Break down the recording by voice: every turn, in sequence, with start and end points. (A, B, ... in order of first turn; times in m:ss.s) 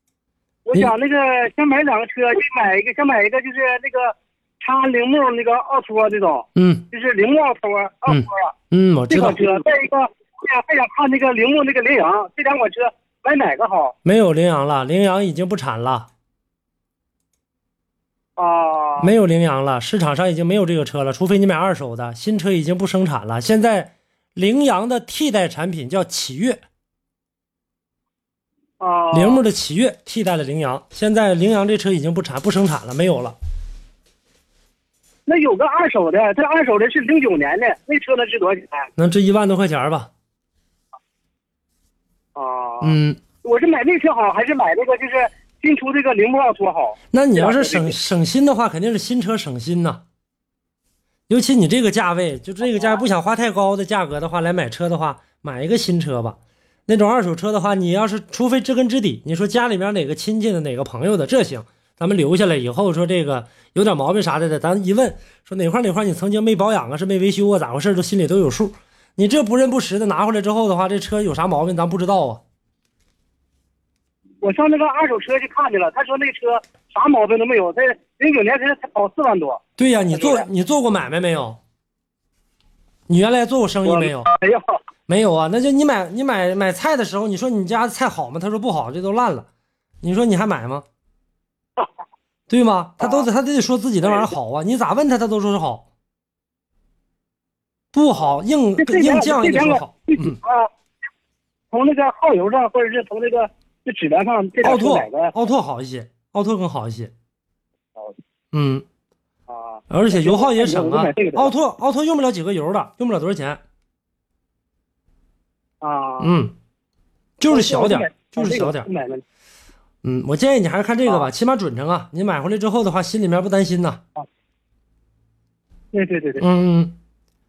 0:00.7-0:08.5 A
0:06.6-0:06.8 B
0:08.1-0:09.4 B
0:09.1-0:14.0 A
0:14.0-0:16.1 B
0:18.4-0:19.1 A
0:19.0-0:26.6 B
0:28.8-0:29.4 A
0:29.1-0:33.4 B
0:35.3-0:38.9 A
0:39.0-0:40.1 B
0:42.4-0:48.0 A
0:42.8-0:43.2 B
0:47.1-0:50.0 B
0:51.3-1:12.4 B
0:52.6-0:53.0 A
1:14.4-1:19.6 A
1:19.8-1:21.6 B
1:20.1-1:20.5 A
1:23.1-1:24.3 B
1:23.8-1:24.8 A
1:25.1-1:29.5 B
1:30.0-1:30.8 B
1:32.5-1:35.9 B
1:33.0-1:33.3 A
1:34.0-1:34.3 A
1:37.9-1:40.4 B
1:38.8-1:40.7 A
1:41.7-1:45.3 A
1:44.6-1:47.1 B
1:48.5-1:48.8 B
1:49.5-1:51.5 A
1:49.9-1:53.6 B
1:55.8-1:56.4 A
1:56.2-1:56.5 B
1:57.4-1:58.9 B
1:57.5-1:59.2 A
2:00.0-2:04.0 B
2:05.9-2:06.4 A
2:06.4-2:07.0 B